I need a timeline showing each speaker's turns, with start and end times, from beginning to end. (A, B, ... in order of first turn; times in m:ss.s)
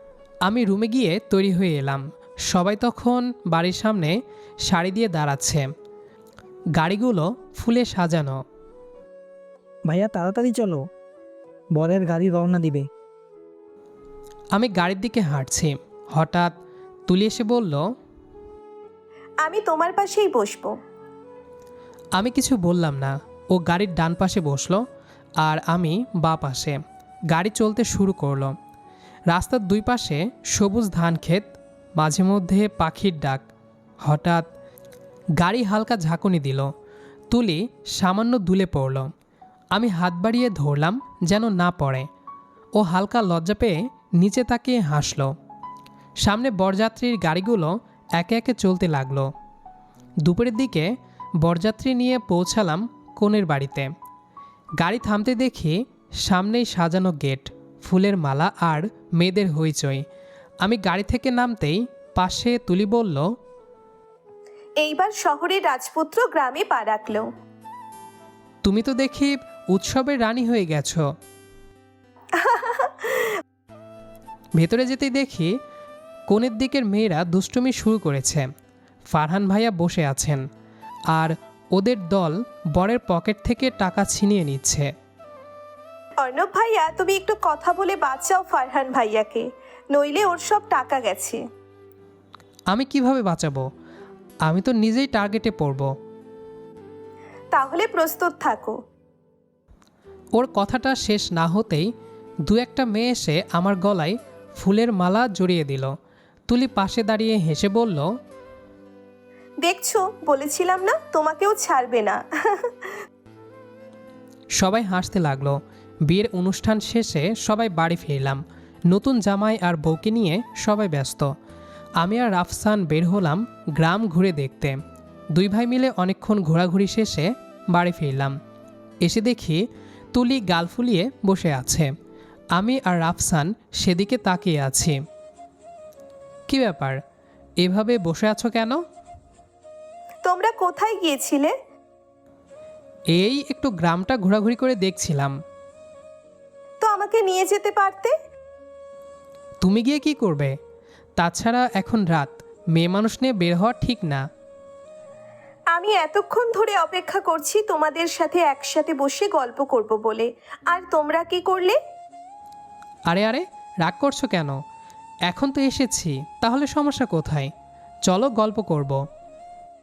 0:00.4-0:05.7 A
0:06.7-0:08.4 A
0:09.9-0:10.8 B
0:11.7-0:12.8 B
0:14.5-0:16.5 A
0:17.1-0:17.8 A
0:19.4-0:20.8 C
0:22.1-0:24.8 A
0:25.4-0:26.8 A
0:27.3-0:28.5 A
0:29.3-0:33.4 A
0:34.0-0:34.4 A
0:35.4-0:36.7 A
0:37.3-0:39.1 A
0:39.7-0:42.1 A
0:42.8-0:45.3 A
0:46.2-0:49.3 A
0:50.2-0:53.9 A
0:54.8-1:00.0 A
1:00.6-1:03.3 A
1:04.8-1:07.3 C
1:08.6-1:11.0 A
1:12.3-1:13.4 C
1:14.6-1:15.5 A
1:16.3-1:18.5 A
1:19.1-1:20.4 A
1:21.1-1:24.9 A
1:26.2-1:31.4 C
1:32.7-1:33.6 A
1:34.4-1:35.9 A
1:37.5-1:38.8 C
1:40.3-1:41.9 A
1:42.4-1:45.9 A
1:46.5-1:48.1 A
1:49.6-1:52.9 C
1:54.6-2:01.3 A
2:02.0-2:04.8 A
2:05.3-2:08.4 A
2:09.0-2:11.9 A
2:12.5-2:15.0 A
2:16.5-2:17.0 A
2:17.6-2:18.8 A
2:20.2-2:21.5 C
2:23.1-2:25.4 A
2:26.8-2:28.1 C
2:29.6-2:30.6 A
2:31.2-2:34.2 A
2:35.7-2:41.8 C
2:43.1-2:44.6 A
2:45.3-2:47.5 A
2:48.0-2:49.0 A